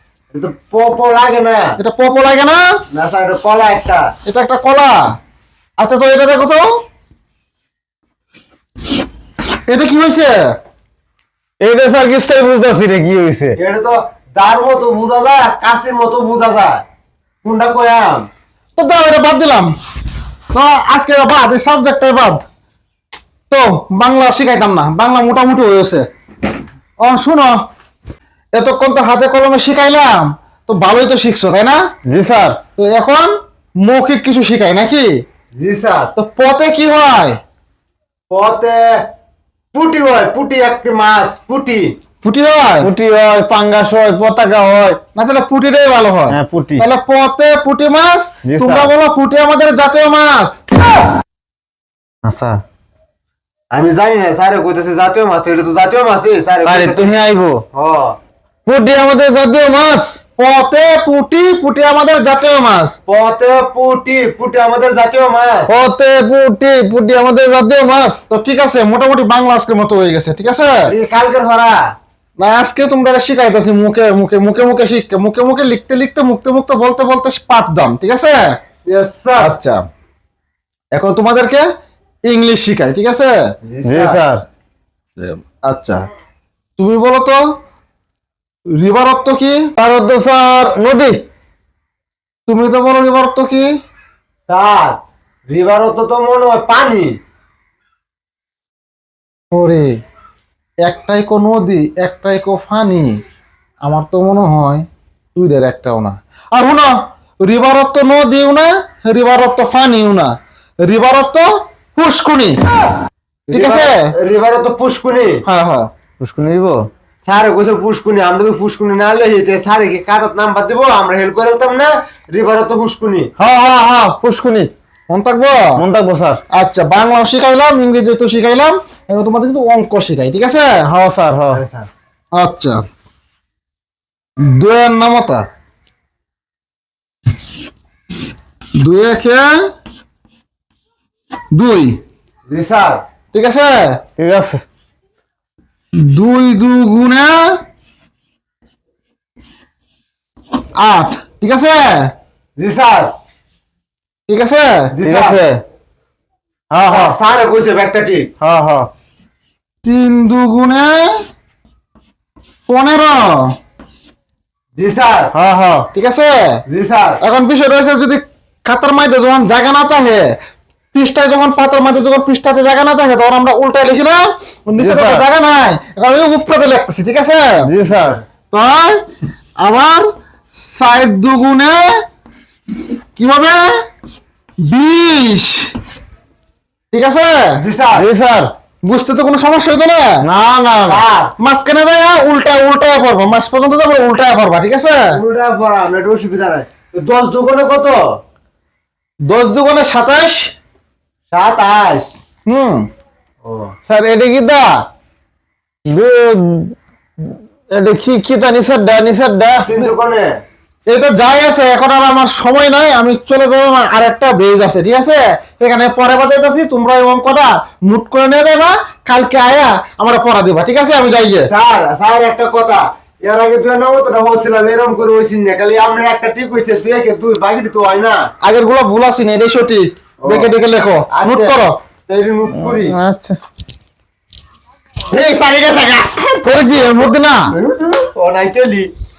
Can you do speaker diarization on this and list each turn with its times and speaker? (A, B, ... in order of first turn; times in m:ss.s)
0:00.3-0:01.8 A
0:01.8-0:02.6 B
0:02.9-0:04.1 A
0:04.3-0:05.2 B
0:05.8-0:06.7 B
0:09.7-0:10.3 B
0:11.6-0:13.6 C
0:13.6-0:16.8 A
0:17.4-0:18.3 A
0:18.8-0:19.7 B
0:20.5-0:22.4 B
0:23.5-0:26.1 B
0:27.0-0:27.6 B
0:28.6-0:31.8 B
0:32.1-0:32.6 C
0:32.8-0:35.1 B
0:35.6-0:36.1 A
0:36.2-0:37.4 B
0:38.3-0:38.9 A
0:39.7-0:41.9 A
0:42.2-0:42.9 B
0:42.8-0:45.0 C
0:45.2-0:50.6 B
0:46.3-0:46.8 C
0:48.4-0:48.9 C
0:52.3-0:52.6 C
0:53.7-0:57.2 A
0:56.6-0:57.6 C
0:57.7-0:58.2 A
0:58.7-1:00.2 C
1:00.4-1:03.0 B
1:03.1-1:05.7 A
1:05.7-1:08.2 C
1:08.3-1:10.9 B
1:10.9-1:11.8 A
1:12.4-1:18.6 B
1:18.9-1:19.5 A
1:19.4-1:19.8 B
1:20.9-1:21.6 B
1:22.3-1:23.3 B
1:23.7-1:24.2 A
1:23.8-1:24.4 C
1:25.2-1:26.1 B
1:26.8-1:27.4 B
1:28.7-1:29.7 B
1:29.8-1:31.2 C
1:32.5-1:33.7 B
1:34.5-1:35.0 A
1:35.5-1:37.1 A
1:39.5-1:40.0 B
1:40.8-1:43.2 B
1:43.8-1:46.9 B
1:47.4-1:52.6 B
1:53.5-1:55.4 A
1:53.5-1:53.9 B
1:55.4-1:55.9 B
1:56.2-1:56.9 C
1:57.3-2:03.3 A
2:03.4-2:04.7 C
2:05.1-2:05.8 B
2:05.8-2:06.4 C
2:06.5-2:10.8 B
2:10.9-2:11.6 C
2:11.5-2:11.9 A
2:12.3-2:12.8 B
2:14.4-2:15.4 B
2:18.8-2:19.5 B
2:21.5-2:22.0 B
2:22.5-2:23.0 A
2:23.3-2:24.0 B
2:24.2-2:24.6 C
2:26.0-2:27.6 B
2:30.8-2:32.1 B
2:32.6-2:33.1 A
2:34.3-2:34.9 B
2:34.9-2:35.4 A
2:35.0-2:35.6 C
2:36.7-2:37.2 C
2:36.9-2:38.3 A
2:38.4-2:38.9 C
2:39.8-2:41.2 B
2:42.7-2:43.6 B
2:44.8-2:45.3 A
2:45.3-2:45.9 C
2:45.9-2:46.6 B
2:46.7-2:47.2 A
2:47.2-2:50.4 B
2:50.9-2:57.7 B
2:54.8-2:55.2 C
2:57.6-2:58.2 C
2:58.5-2:59.0 B
2:59.6-3:01.9 B
3:03.2-3:03.7 B
3:04.6-3:05.7 B
3:06.9-3:07.6 B
3:07.6-3:08.1 A
3:08.0-3:08.5 C
3:08.8-3:10.2 B
3:10.2-3:11.0 C
3:10.9-3:11.3 A
3:11.4-3:15.1 B
3:15.1-3:18.0 A
3:19.3-3:20.5 B
3:21.3-3:22.1 A
3:22.5-3:22.9 B
3:23.5-3:23.7 A
3:23.9-3:24.8 C
3:25.9-3:26.7 C
3:27.7-3:29.7 C
3:29.6-3:30.3 A
3:30.9-3:41.5 B
3:41.5-3:48.3 A
3:48.4-3:51.8 B
3:50.2-3:50.5 A
3:51.1-3:51.6 A
3:52.1-3:53.0 A
3:52.6-3:53.4 C
3:55.1-3:56.4 A
3:56.4-3:57.5 C
3:57.5-3:58.9 A